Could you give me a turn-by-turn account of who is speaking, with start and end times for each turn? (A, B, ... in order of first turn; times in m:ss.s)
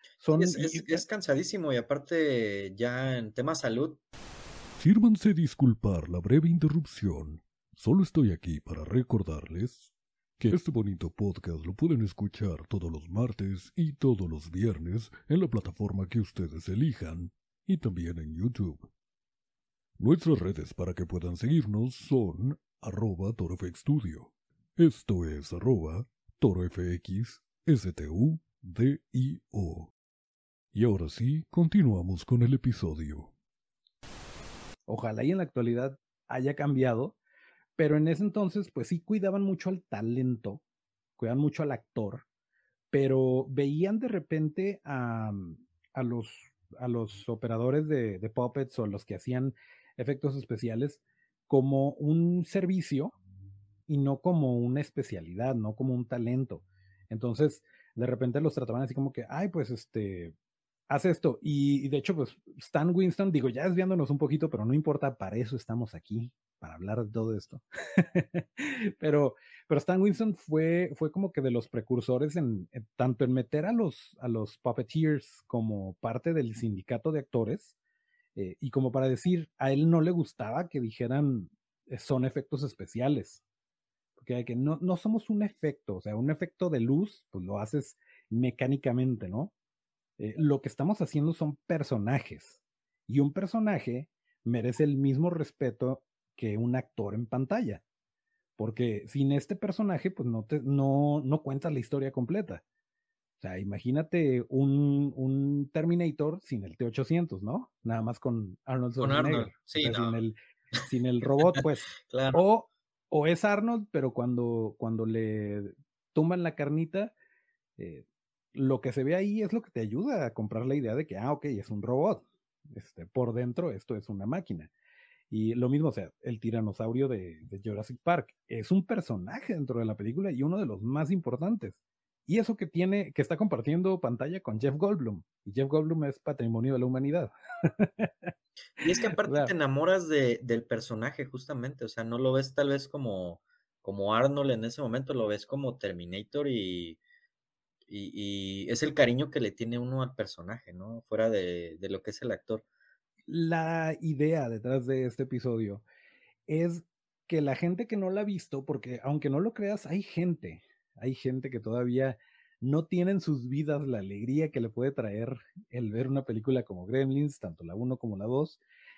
0:00.2-0:01.0 A
0:00.3-0:04.0 B
0:04.8-0:18.9 C
0:20.0-0:29.9 C
0:30.7-0:33.3 C
0:34.9-0:37.2 A
0:37.8-0:40.6 A
0:41.2-0:42.2 A
0:42.9-0:53.1 A
0:53.9-1:00.3 A
1:00.9-1:17.8 A
1:18.4-1:23.4 A
1:24.2-1:29.5 A
1:30.2-1:37.8 A
1:38.6-1:42.6 A
1:43.4-1:57.1 A
1:49.0-1:50.2 B
1:51.5-1:52.4 B
1:57.8-2:04.7 A
2:05.3-2:18.3 A
2:18.8-2:27.0 B
2:19.2-2:19.5 A
2:27.9-2:32.6 B
2:33.3-2:35.8 A
2:36.5-2:48.6 A